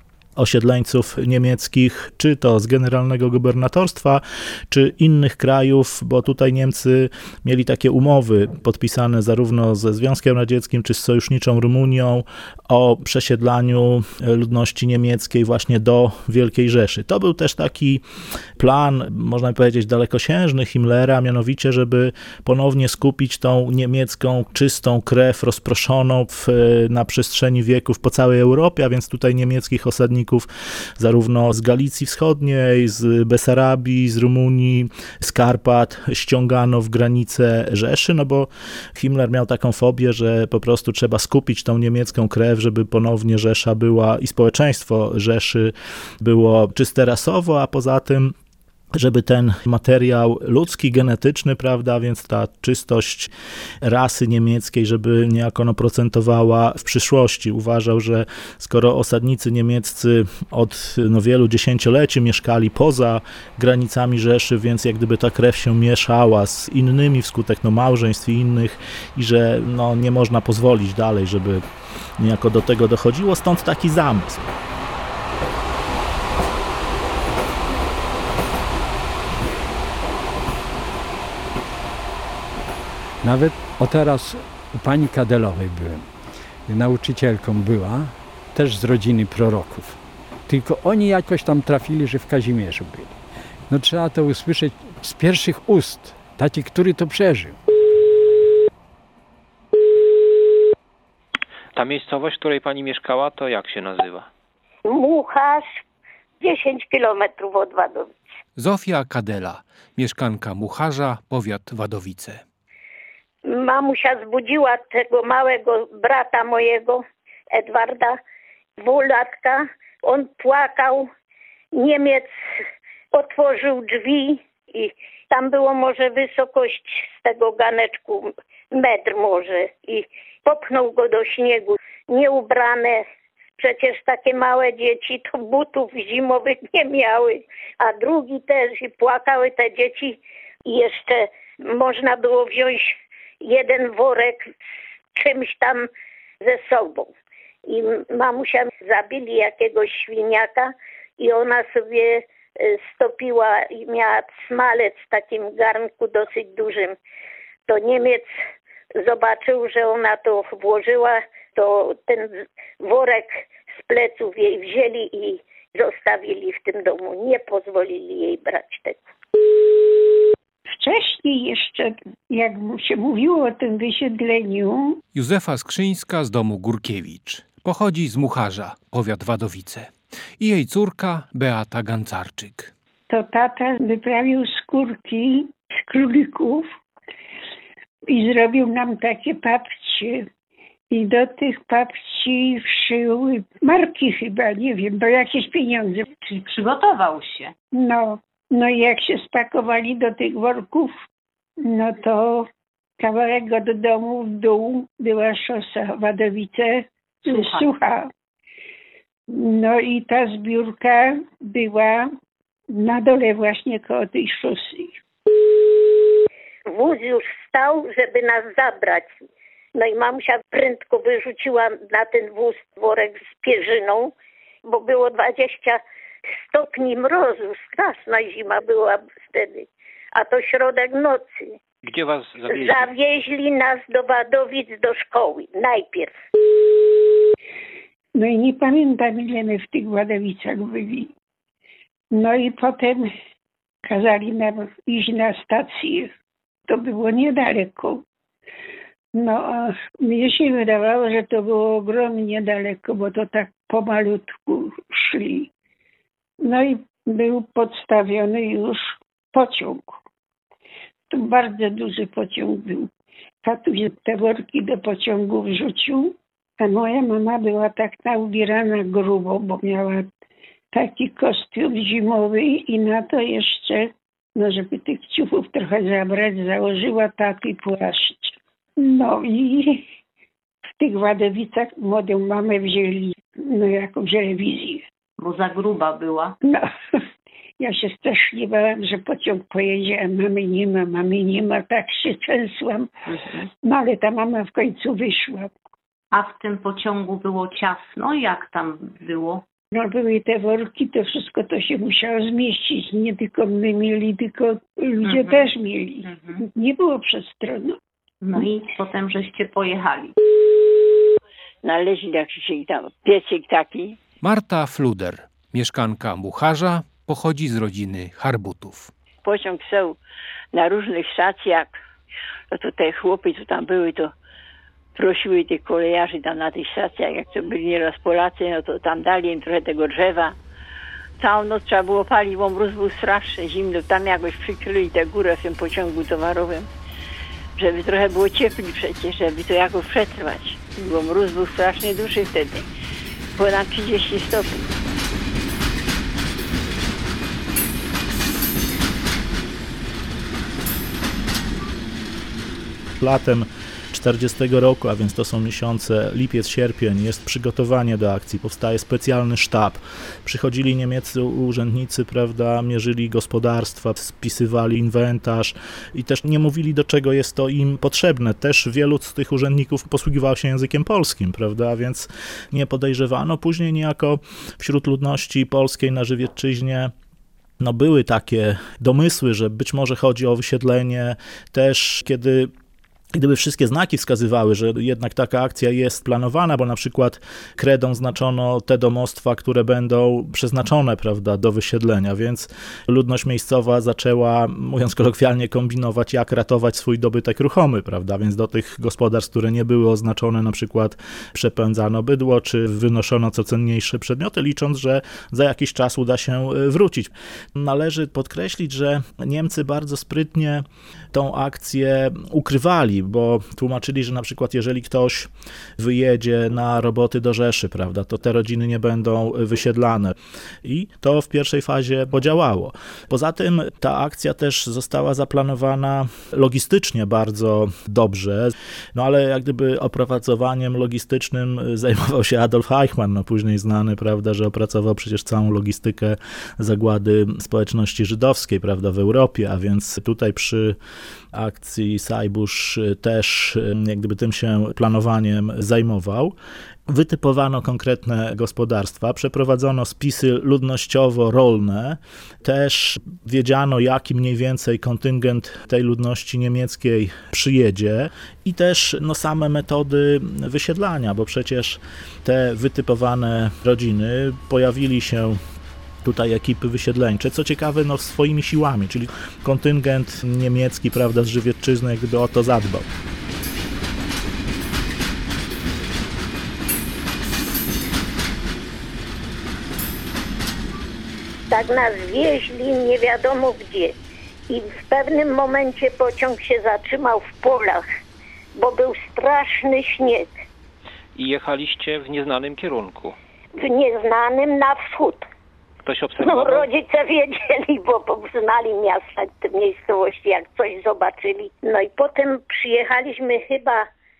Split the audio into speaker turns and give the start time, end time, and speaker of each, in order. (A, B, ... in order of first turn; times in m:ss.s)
0:00.4-0:18.0 A
0:18.6-0:48.3 A
0:48.9-1:11.6 A
1:12.2-1:14.5 A
1:23.2-1:26.1 B
1:26.7-1:33.2 B
1:33.7-1:37.6 B
1:41.7-1:44.3 C
1:44.9-1:45.8 D
1:46.4-1:48.2 D
1:48.6-1:52.4 E
1:53.5-1:58.2 D
1:58.8-2:01.1 D
2:01.7-2:02.3 D
2:03.1-2:13.0 D
2:13.6-2:24.5 D
2:25.2-2:25.8 D
2:26.4-2:27.1 D
2:27.7-2:37.0 D
2:37.7-2:38.3 D
2:39.0-2:49.0 D
2:50.8-2:55.0 F
2:55.1-3:02.7 E
3:03.1-3:06.7 F
3:08.1-3:10.3 F
3:10.9-3:16.0 F
3:16.2-3:17.5 G
3:17.7-3:20.9 F
3:21.6-3:28.1 F
3:27.3-3:27.7 G
3:29.3-3:32.1 F
3:32.7-3:35.0 F
3:36.7-3:39.1 D
3:39.8-3:44.1 D
3:44.7-3:45.8 D
3:46.5-3:51.5 D
3:51.8-3:52.9 C
3:52.5-3:56.1 D
3:58.2-4:01.1 F
4:02.1-4:03.1 F
4:03.9-4:06.1 F
4:06.7-4:08.0 F
4:09.2-4:15.5 F
4:16.4-4:20.0 F
4:21.1-4:22.9 F
4:23.4-4:30.1 F
4:30.7-4:39.9 F
4:40.8-4:44.9 F
4:45.2-4:46.4 G
4:46.4-4:46.7 F
4:47.6-4:52.9 F
4:53.1-4:53.5 G
4:53.6-4:55.5 F
4:56.1-4:59.4 G
4:59.7-5:07.8 F
5:05.1-5:05.4 G
5:06.0-5:06.4 G
5:08.2-5:10.2 G
5:11.6-5:14.0 H
5:14.2-5:18.9 E
5:19.2-5:20.0 H
5:20.5-5:21.7 H
5:22.5-5:24.1 H
5:25.0-5:30.4 H
5:31.2-5:36.7 H
5:37.6-5:42.7 H
5:43.4-5:44.6 H
5:53.0-6:16.9 A
6:17.6-6:22.5 A
6:23.1-7:20.8 A
7:21.3-7:26.3 A
7:26.9-7:45.4 A
7:46.0-7:52.9 A
8:01.5-8:03.9 D
8:04.5-8:07.8 D
8:08.6-8:10.3 D
8:11.2-8:13.2 C
8:13.6-8:15.2 D
8:15.8-8:16.7 C
8:16.2-8:23.9 D